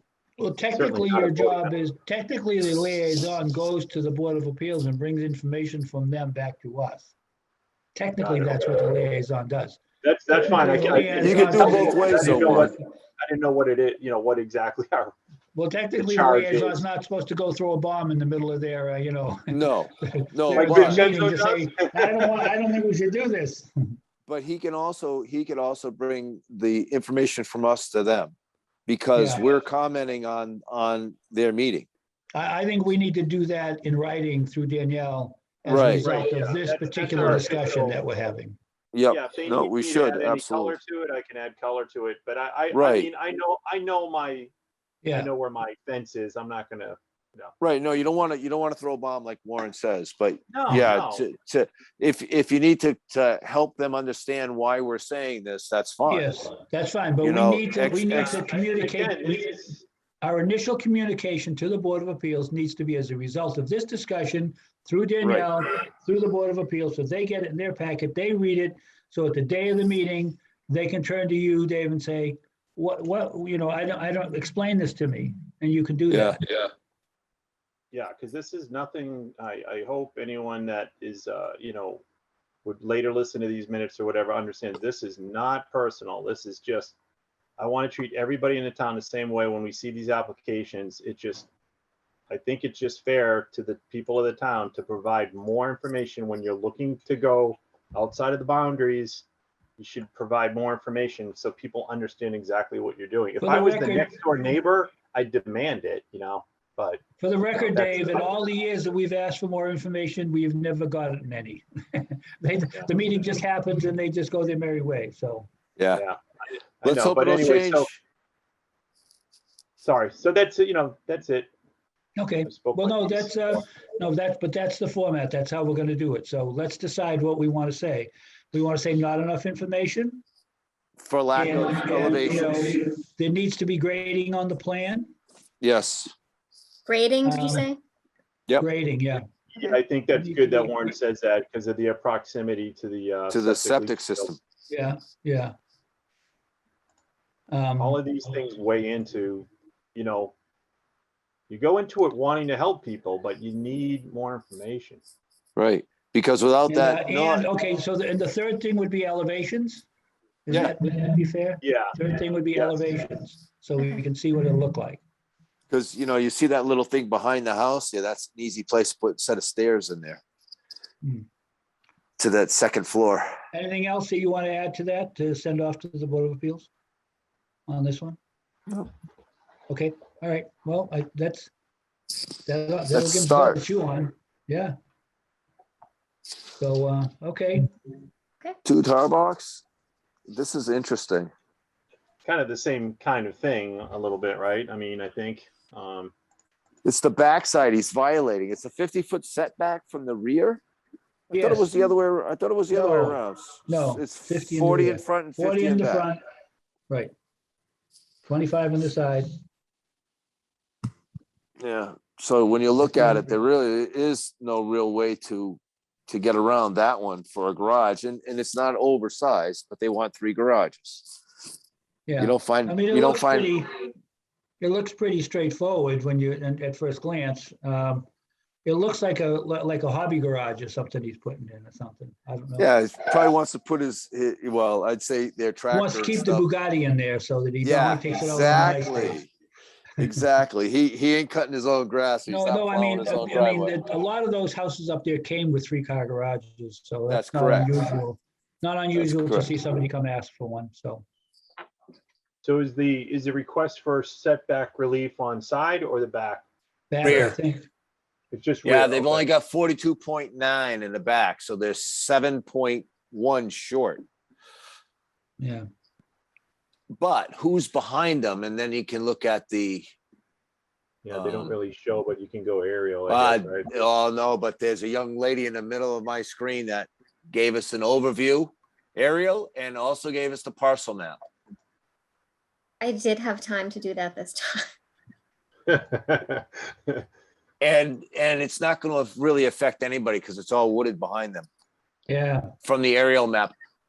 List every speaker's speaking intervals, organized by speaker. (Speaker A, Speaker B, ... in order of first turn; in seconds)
Speaker A: 0.4-7.1, 8.0-9.8, 10.3-12.7, 15.6-23.7, 29.1-29.5, 32.3-38.6, 45.0-45.3, 56.1-59.6, 60.2-76.4, 103.4-104.1, 107.2-115.5, 122.2-130.2, 131.3-135.1, 137.2-137.7, 138.6-139.2, 140.1-140.9, 144.7-145.6, 147.5-148.0, 156.7-159.9, 160.5-165.0, 173.5-176.7, 177.7-178.2, 179.7-181.5, 182.4-184.8, 186.6-187.7, 201.3-201.8, 202.7-206.2, 208.2-209.3, 222.1-223.8, 224.6-228.1, 228.7-232.7, 235.7-239.2, 242.3-251.1, 256.9-257.7, 265.4-265.6, 292.1-292.5
Speaker B: 0.8-1.7, 8.2-8.7, 10.0-15.2, 15.9-16.8, 20.5-22.5, 36.0-38.1, 39.1-44.5, 45.1-47.5, 50.5-51.2, 58.0-59.8, 77.9-82.0, 82.7-87.0, 87.6-91.5, 92.3-99.2, 99.8-108.5, 115.9-117.9, 119.8-121.5, 122.5-123.6, 139.5-144.4, 147.8-150.3, 151.5-155.0, 161.6-162.0, 162.5-162.8, 192.2-196.1, 252.4-256.4, 258.3-259.3, 271.0-273.7, 285.7-287.0
Speaker C: 11.1-12.7, 19.5-21.1, 24.3-28.4, 28.9-31.9, 35.7-36.1, 38.9-40.8, 42.7-43.1, 47.6-56.3, 57.2-58.4, 65.2-65.5, 76.1-76.6, 115.8-116.0, 116.8-118.0, 131.0-132.7, 135.6-136.1, 143.3-144.4, 155.6-157.5, 165.7-170.2, 172.2-173.3, 182.9-183.6, 188.7-189.6, 190.3-191.3, 196.8-200.6, 201.3-206.1, 211.6-221.2, 222.2-223.6, 232.6-236.5, 237.6-239.3, 240.0-243.8, 247.1-247.7, 248.9-249.5, 257.0-257.4, 258.6-264.0, 267.0-269.9, 271.1-271.6, 273.1-281.2, 287.6-291.5, 292.6-293.5
Speaker D: 136.9-137.8, 282.8-284.7